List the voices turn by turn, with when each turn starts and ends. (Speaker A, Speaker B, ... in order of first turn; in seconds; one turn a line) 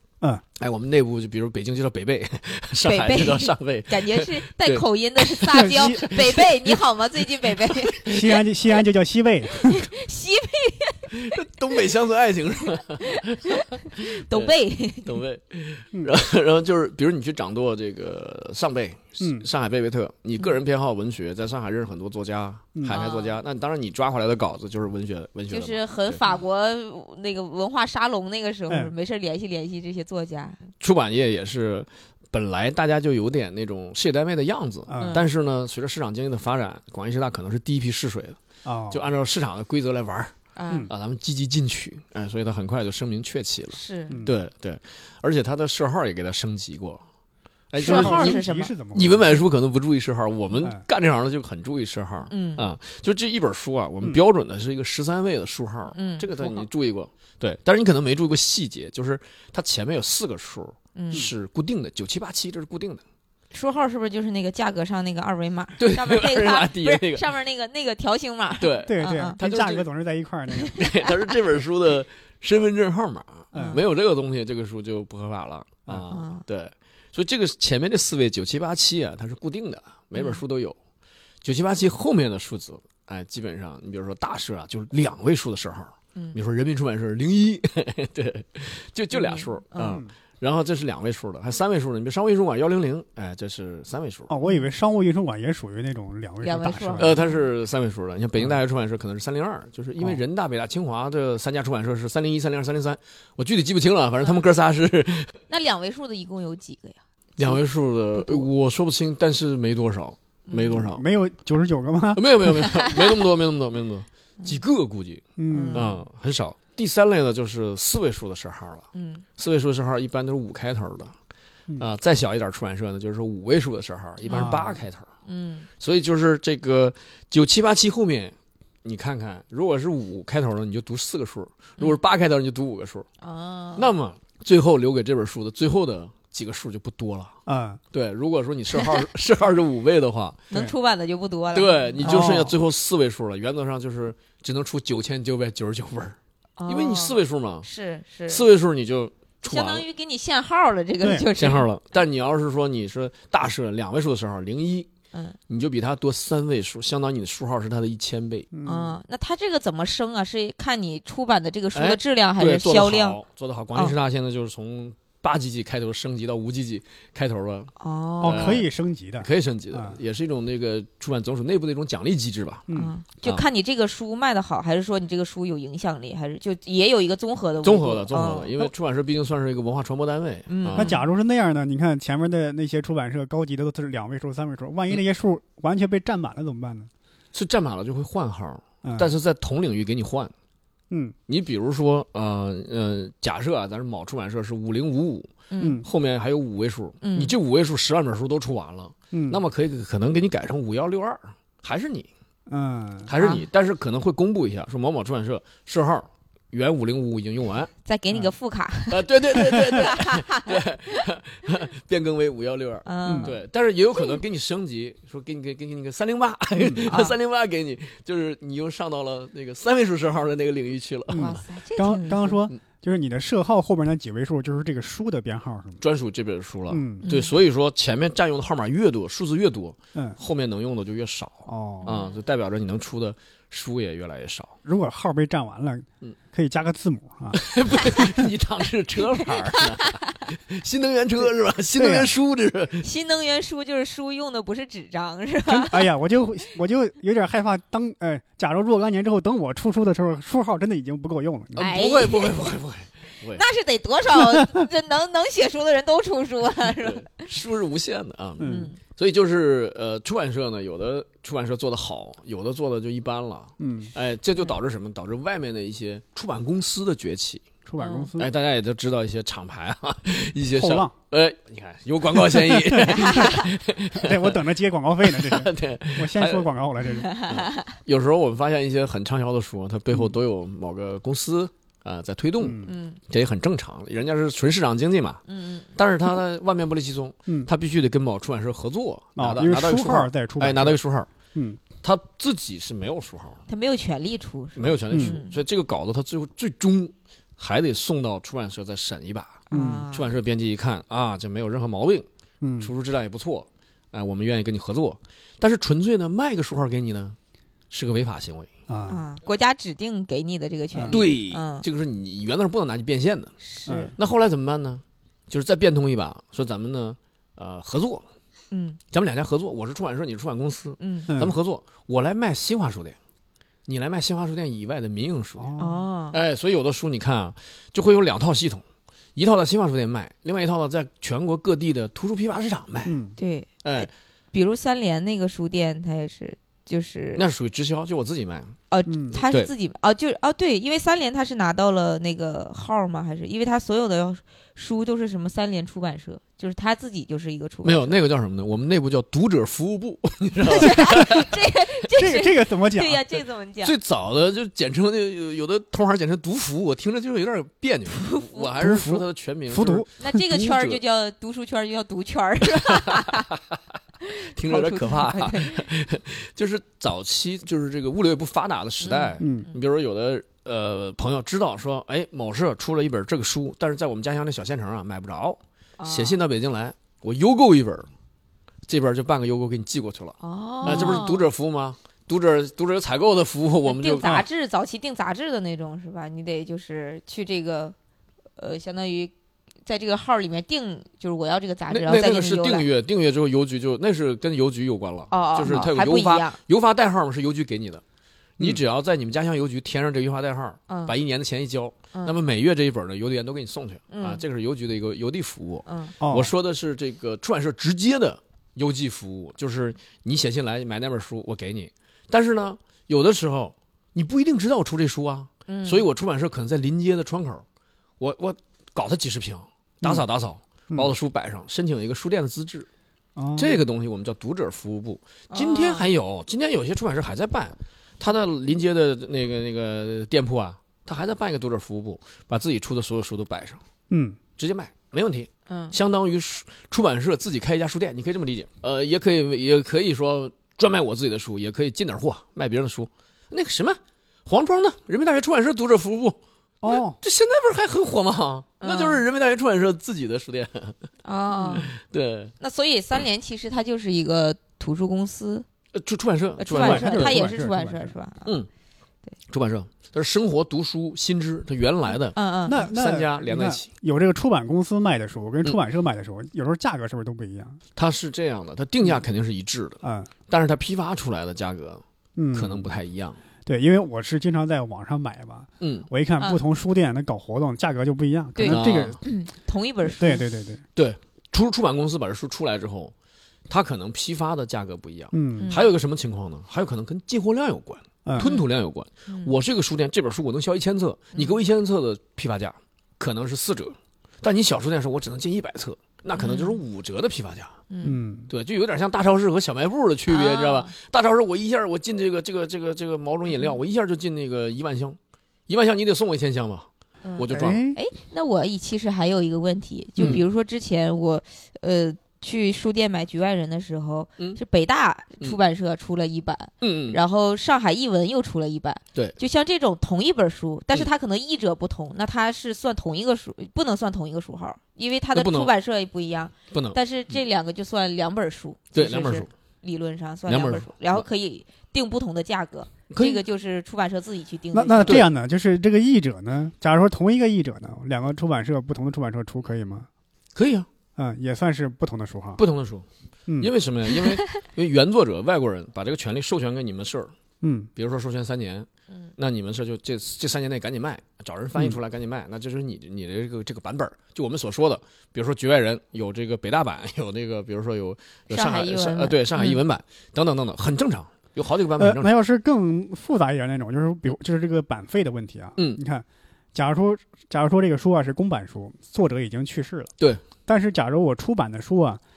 Speaker A: 0.6-8.4
Speaker B: 2.8-8.2
Speaker C: 5.5-6.0
Speaker C: 8.1-9.8
Speaker B: 9.5-11.3
Speaker A: 11.1-14.5
Speaker B: 13.0-15.2
Speaker A: 15.0-26.2
Speaker C: 19.2-19.5
Speaker C: 22.8-23.0
Speaker B: 22.9-23.4
Speaker B: 25.5-30.6
Speaker A: 30.8-38.4
Speaker C: 34.9-35.2
Speaker B: 35.0-35.3
Speaker C: 38.6-39.1
Speaker A: 38.9-40.3
Speaker B: 40.5-40.9
Speaker A: 40.9-47.0
Speaker B: 43.7-44.2
Speaker C: 44.1-44.4
Speaker A: 47.7-63.0
Speaker B: 47.8-48.7
Speaker C: 47.8-49.4
Speaker B: 52.3-52.6
Speaker B: 55.9-56.6
Speaker B: 61.0-61.2
Speaker B: 63.5-69.3
Speaker A: 65.8-67.3
Speaker A: 68.6-69.8
Speaker C: 68.8-70.8
Speaker B: 70.6-71.3
Speaker A: 70.7-80.8
Speaker C: 73.5-73.8
Speaker B: 73.5-73.8
Speaker B: 76.1-76.4
Speaker B: 80.1-80.4
Speaker A: 81.4-94.3
Speaker B: 89.1-90.0
Speaker C: 94.3-97.2
Speaker B: 96.4-97.4
Speaker A: 97.0-105.3
Speaker B: 105.5-107.6
Speaker A: 107.4-111.0
Speaker B: 108.1-108.5
Speaker B: 110.5-110.8
Speaker C: 110.8-112.5
Speaker A: 112.2-121.1
Speaker B: 112.7-113.0
Speaker C: 115.4-115.9
Speaker B: 115.5-116.0
Speaker B: 118.9-119.2
Speaker A: 121.8-125.1
Speaker B: 124.2-124.6
Speaker C: 124.3-124.8
Speaker B: 125.2-125.7
Speaker A: 125.8-133.1
Speaker B: 133.2-133.9
Speaker A: 133.8-137.3
Speaker C: 137.4-137.8
Speaker A: 137.9-140.4
Speaker B: 138.8-139.0
Speaker B: 140.5-142.5
Speaker A: 141.5-146.2
Speaker C: 142.0-142.5
Speaker B: 146.6-148.5
Speaker A: 146.7-147.7
Speaker A: 148.3-149.8
Speaker B: 149.4-151.6
Speaker C: 151.0-151.3
Speaker A: 151.3-154.9
Speaker A: 155.5-158.5
Speaker C: 158.5-159.0
Speaker B: 158.7-163.2
Speaker A: 161.7-167.7
Speaker B: 167.8-168.6
Speaker C: 168.2-170.0
Speaker A: 168.2-168.7
Speaker A: 169.2-172.7
Speaker B: 172.7-178.6
Speaker A: 177.6-180.9
Speaker B: 180.5-181.0
Speaker C: 180.8-186.9
Speaker A: 187.3-190.3
Speaker C: 188.8-189.1
Speaker C: 190.9-191.2
Speaker A: 191.3-202.1
Speaker B: 195.5-195.8
Speaker C: 195.6-195.9
Speaker B: 197.0-197.3
Speaker C: 199.1-199.4
Speaker C: 202.5-203.1
Speaker A: 203.1-207.7
Speaker B: 203.2-203.4
Speaker B: 207.8-211.0
Speaker A: 208.9-221.4
Speaker B: 212.8-213.4
Speaker C: 213.0-213.3
Speaker C: 216.6-216.9
Speaker B: 216.9-217.1
Speaker C: 221.1-225.8
Speaker B: 221.1-222.4
Speaker A: 225.8-234.5
Speaker C: 226.7-227.1
Speaker B: 227.0-227.3
Speaker C: 231.5-232.0
Speaker B: 231.8-232.2
Speaker C: 234.6-238.3
Speaker A: 237.3-242.8
Speaker B: 239.1-240.1
Speaker C: 241.8-242.1
Speaker B: 242.8-245.9
Speaker C: 245.5-251.7
Speaker A: 251.6-253.4
Speaker B: 251.6-252.5
Speaker B: 253.3-257.2
Speaker A: 256.8-267.4
Speaker C: 258.4-258.7
Speaker B: 258.4-258.8
Speaker C: 263.6-263.9
Speaker C: 267.6-268.3
Speaker B: 267.8-268.1
Speaker A: 268.2-274.4
Speaker C: 270.5-270.9
Speaker C: 272.1-277.1
Speaker B: 273.0-273.4
Speaker A: 275.0-276.5
Speaker B: 277.0-277.7
Speaker A: 277.3-285.2
Speaker C: 282.4-282.7
Speaker B: 282.6-283.0
Speaker B: 285.3-285.7
Speaker A: 285.8-291.1
Speaker C: 289.2-290.8
Speaker C: 291.3-291.6
Speaker A: 291.8-293.4
Speaker B: 293.5-295.4
Speaker A: 294.6-302.1
Speaker C: 294.9-295.1
Speaker B: 299.5-300.1
Speaker C: 299.5-299.9
Speaker C: 302.4-302.7
Speaker A: 302.6-307.1
Speaker A: 307.7-308.5
Speaker C: 308.7-309.0
Speaker B: 308.9-311.6
Speaker C: 310.7-311.0
Speaker A: 310.9-313.3
Speaker B: 313.5-313.9
Speaker C: 313.7-313.9
Speaker A: 314.0-318.0
Speaker B: 318.5-318.8
Speaker A: 318.9-322.9
Speaker B: 320.8-321.1
Speaker C: 321.1-321.4
Speaker A: 323.6-325.5
Speaker C: 325.4-325.8
Speaker B: 325.6-326.2
Speaker A: 326.1-328.6
Speaker A: 329.1-332.9
Speaker C: 332.8-333.1
Speaker B: 333.2-337.2
Speaker A: 333.6-333.9
Speaker A: 337.1-338.6
Speaker B: 338.7-348.0
Speaker C: 338.9-339.2
Speaker A: 347.6-351.3
Speaker B: 350.4-353.7
Speaker C: 350.6-351.3
Speaker C: 351.9-353.0
Speaker A: 353.6-360.8
Speaker B: 357.9-358.5
Speaker C: 358.6-359.9
Speaker B: 360.0-363.3
Speaker A: 362.7-363.4
Speaker B: 364.1-365.6
Speaker A: 364.3-377.9
Speaker B: 368.8-369.5
Speaker C: 369.2-369.5
Speaker B: 375.8-376.2
Speaker A: 378.7-384.2
Speaker B: 380.2-381.3
Speaker C: 380.6-381.0
Speaker B: 383.6-387.7
Speaker B: 388.4-389.1
Speaker B: 389.6-392.7
Speaker A: 391.7-397.8
Speaker B: 395.1-396.4
Speaker A: 398.4-417.4
Speaker B: 400.7-400.9
Speaker B: 403.9-404.2
Speaker B: 405.6-405.9
Speaker C: 406.0-406.3
Speaker B: 415.5-415.9
Speaker A: 418.0-422.7
Speaker C: 423.2-423.6
Speaker A: 423.4-433.6
Speaker B: 425.3-425.9
Speaker C: 433.9-434.2
Speaker A: 434.4-450.8
Speaker B: 435.5-435.8
Speaker C: 446.6-447.0
Speaker B: 448.6-449.0
Speaker B: 451.0-451.7
Speaker A: 451.5-452.3
Speaker B: 452.4-455.4
Speaker A: 455.7-457.2
Speaker B: 456.4-458.3
Speaker C: 456.6-457.9
Speaker A: 459.3-463.7
Speaker B: 462.1-462.7
Speaker C: 462.5-467.6
Speaker A: 467.8-471.8
Speaker C: 469.8-470.1
Speaker C: 472.2-472.7
Speaker A: 472.3-473.2
Speaker C: 473.4-479.0
Speaker A: 475.6-475.9
Speaker B: 478.3-480.2
Speaker A: 478.5-479.0
Speaker C: 479.9-480.6
Speaker A: 480.8-482.9
Speaker A: 483.5-497.6
Speaker C: 485.1-485.5
Speaker B: 485.4-485.7
Speaker B: 488.2-488.5
Speaker B: 489.1-489.3
Speaker B: 491.1-491.4
Speaker B: 496.1-496.6
Speaker B: 497.7-498.0
Speaker C: 497.8-498.3
Speaker A: 498.3-506.7
Speaker B: 500.1-500.7
Speaker B: 507.0-535.0
Speaker A: 507.2-507.6
Speaker C: 507.3-507.8
Speaker A: 516.6-517.0
Speaker A: 525.1-525.5
Speaker A: 526.5-526.8
Speaker A: 528.7-529.3
Speaker A: 530.3-531.0
Speaker A: 532.9-533.2
Speaker C: 534.5-539.9
Speaker A: 540.4-540.7
Speaker C: 541.0-542.4
Speaker A: 542.4-542.8
Speaker A: 543.4-547.1
Speaker C: 547.4-547.7
Speaker A: 547.8-562.1
Speaker B: 558.3-559.6
Speaker C: 561.8-569.9
Speaker C: 570.5-572.0